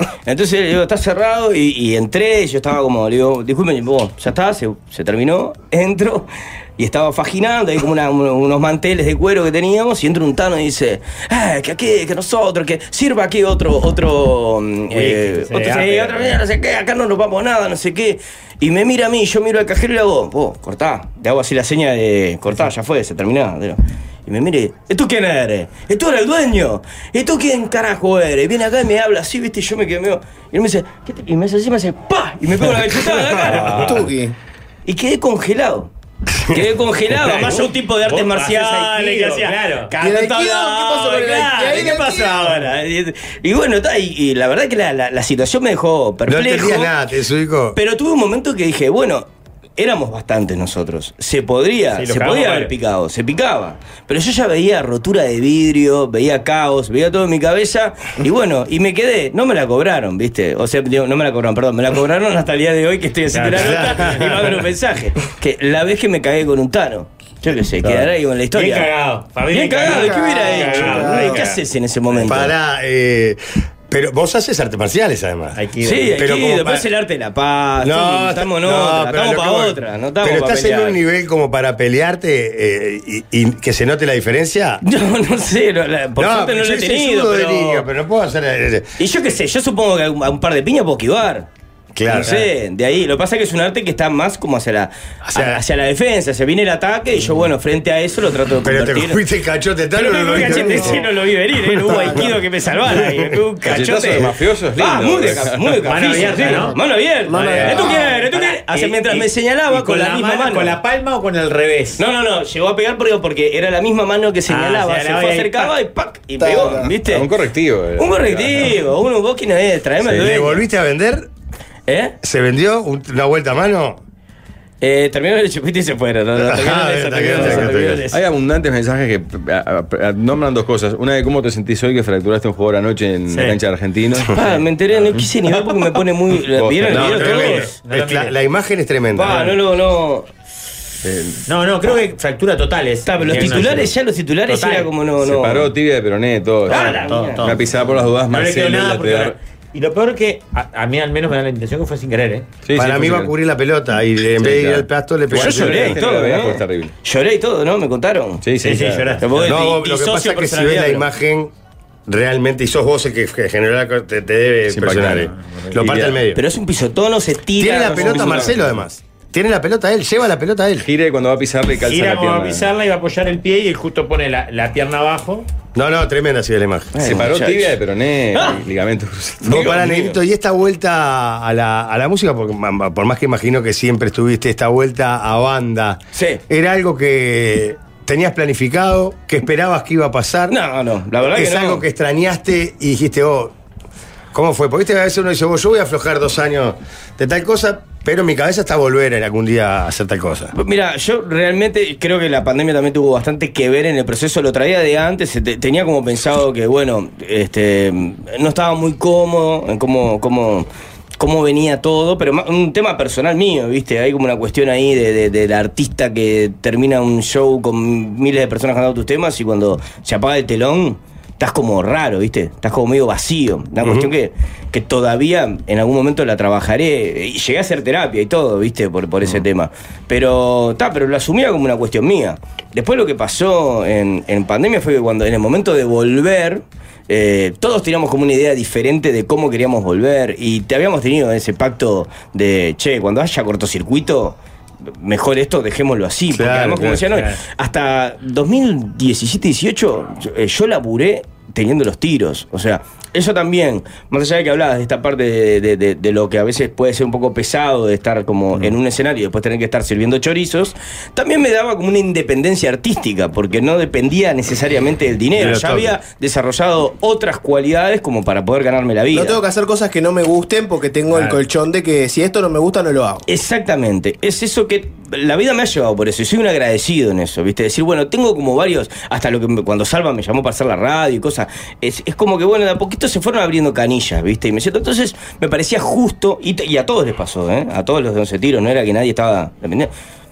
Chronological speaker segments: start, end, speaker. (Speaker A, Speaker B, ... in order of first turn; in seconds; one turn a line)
Speaker A: 0.3-34.1
Speaker B: 14.9-16.4
Speaker C: 33.6-34.4
Speaker A: 34.9-35.9
Speaker A: 36.5-46.9
Speaker B: 38.1-39.9
Speaker C: 40.0-42.5
Speaker B: 42.0-42.7
Speaker D: 46.3-47.8
Speaker A: 47.8-49.3
Speaker A: 49.8-68.9
Speaker B: 51.9-52.7
Speaker B: 63.3-64.5
Speaker D: 63.5-64.6
Speaker B: 67.8-72.3
Speaker A: 69.5-72.5
Speaker C: 69.8-71.4
Speaker D: 72.3-76.9
Speaker B: 75.5-76.1
Speaker A: 75.8-81.0
Speaker D: 77.8-84.8
Speaker A: 84.8-87.9
Speaker D: 86.2-89.0
Speaker A: 89.0-91.5
Speaker D: 92.0-92.5
Speaker A: 92.1-99.2
Speaker D: 95.2-95.6
Speaker D: 98.6-102.3
Speaker A: 99.9-110.8
Speaker C: 100.7-101.0
Speaker C: 101.9-102.3
Speaker D: 102.9-103.4
Speaker E: 103.6-106.4
Speaker B: 105.8-106.8
Speaker C: 106.7-108.1
Speaker B: 107.4-112.0
Speaker A: 112.0-117.3
Speaker B: 114.5-115.7
Speaker C: 116.4-116.9
Speaker E: 117.1-118.8
Speaker A: 118.0-120.6
Speaker E: 120.0-120.3
Speaker D: 120.2-121.3
Speaker A: 121.9-122.2
Speaker D: 122.2-124.0
Speaker A: 124.8-128.2
Speaker D: 126.4-128.0
Speaker E: 127.4-134.7
Speaker B: 133.3-133.6
Speaker A: 134.2-137.7
Speaker B: 135.6-136.0
Speaker E: 136.5-137.2
Speaker D: 136.9-139.5
Speaker B: 136.9-138.3
Speaker A: 139.1-140.3
Speaker B: 139.3-139.6
Speaker B: 141.5-143.9
Speaker A: 143.1-145.7
Speaker E: 143.3-143.9
Speaker B: 144.5-144.9
Speaker E: 145.2-149.4
Speaker A: 146.7-147.6
Speaker B: 146.7-147.6
Speaker B: 148.3-152.5
Speaker E: 152.7-153.3
Speaker D: 152.8-156.0
Speaker E: 154.4-156.9
Speaker A: 155.4-158.4
Speaker E: 158.4-159.2
Speaker B: 158.6-159.6
Speaker A: 159.2-161.1
Speaker D: 159.4-161.5
Speaker D: 162.1-166.4
Speaker E: 164.7-166.2
Speaker B: 165.3-165.7
Speaker A: 166.3-168.6
Speaker D: 167.6-170.9
Speaker B: 167.9-168.6
Speaker E: 170.8-172.7
Speaker B: 171.9-175.5
Speaker D: 175.8-177.0
Speaker A: 176.9-177.8
Speaker E: 177.0-179.7
Speaker A: 178.3-178.6
Speaker D: 179.4-190.6
Speaker A: 179.5-180.2
Speaker A: 186.2-186.4
Speaker A: 190.5-191.8
Speaker D: 191.2-193.5
Speaker D: 194.3-200.5
Speaker A: 200.5-244.4
Speaker D: 223.8-224.1
Speaker A: 245.0-269.4
Speaker D: 246.3-247.1
Speaker B: 247.1-247.4
Speaker D: 265.4-266.0
Speaker C: 269.1-273.2
Speaker A: 273.3-289.9